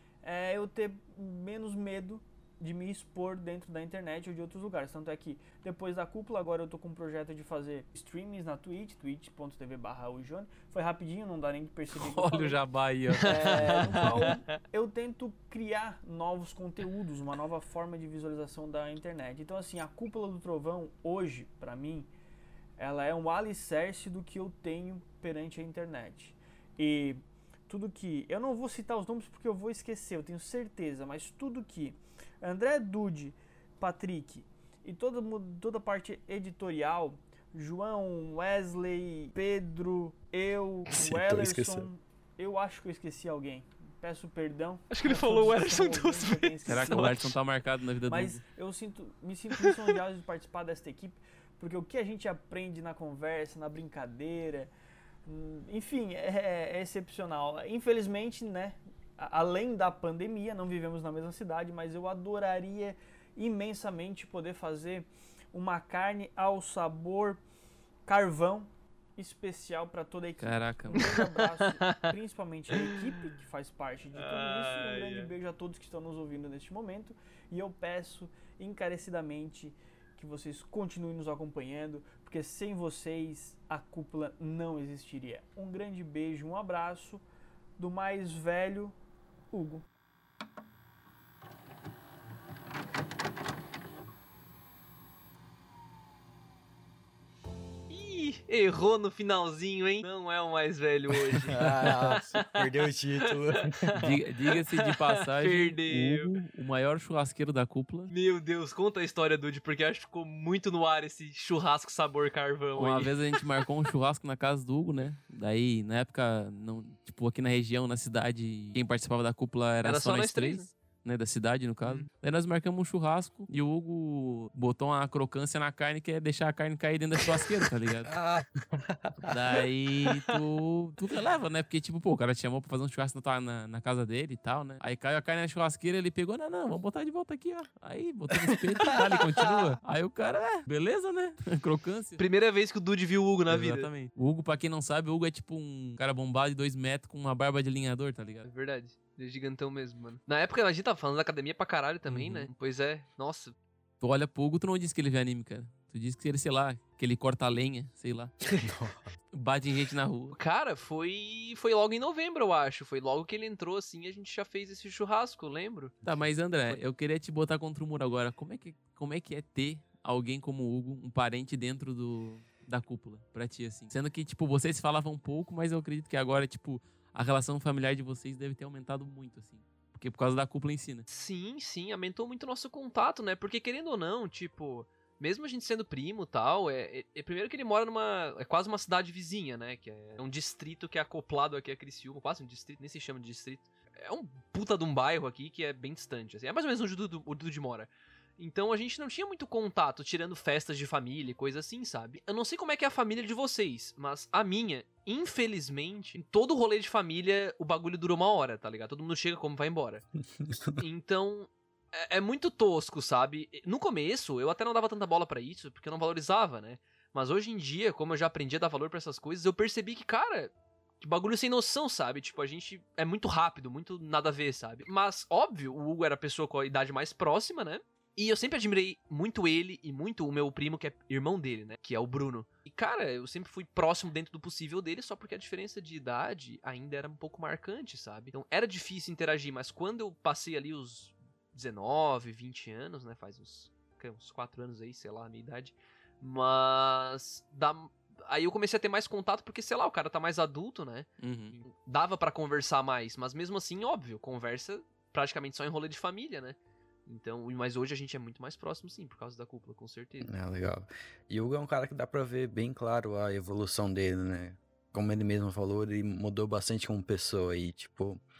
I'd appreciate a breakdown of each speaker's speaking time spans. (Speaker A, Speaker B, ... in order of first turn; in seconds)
Speaker A: 0.2-12.6, 13.2-22.1, 22.8-47.3, 48.1-54.7, 55.2-67.4, 68.1-87.2, 87.8-89.0, 89.5-89.8
Speaker B: 11.9-14.2, 46.6-48.4, 70.4-71.2, 104.0-108.1, 112.8-128.1, 129.3-142.2, 143.5-148.4, 152.1-152.5, 154.0-158.3, 159.3-160.3, 166.0-181.1, 251.2-251.6
Speaker C: 40.9-41.9, 101.3-104.1, 128.0-129.6, 138.9-139.6, 158.6-159.0, 210.4-210.8, 260.2-268.2
Speaker D: 44.9-47.2, 70.9-72.0, 72.7-73.0, 74.1-75.3, 97.9-103.6, 104.5-106.3, 108.1-113.2, 119.8-120.7, 142.2-143.9, 148.4-153.5, 160.3-165.9, 181.1-210.0, 210.8-260.3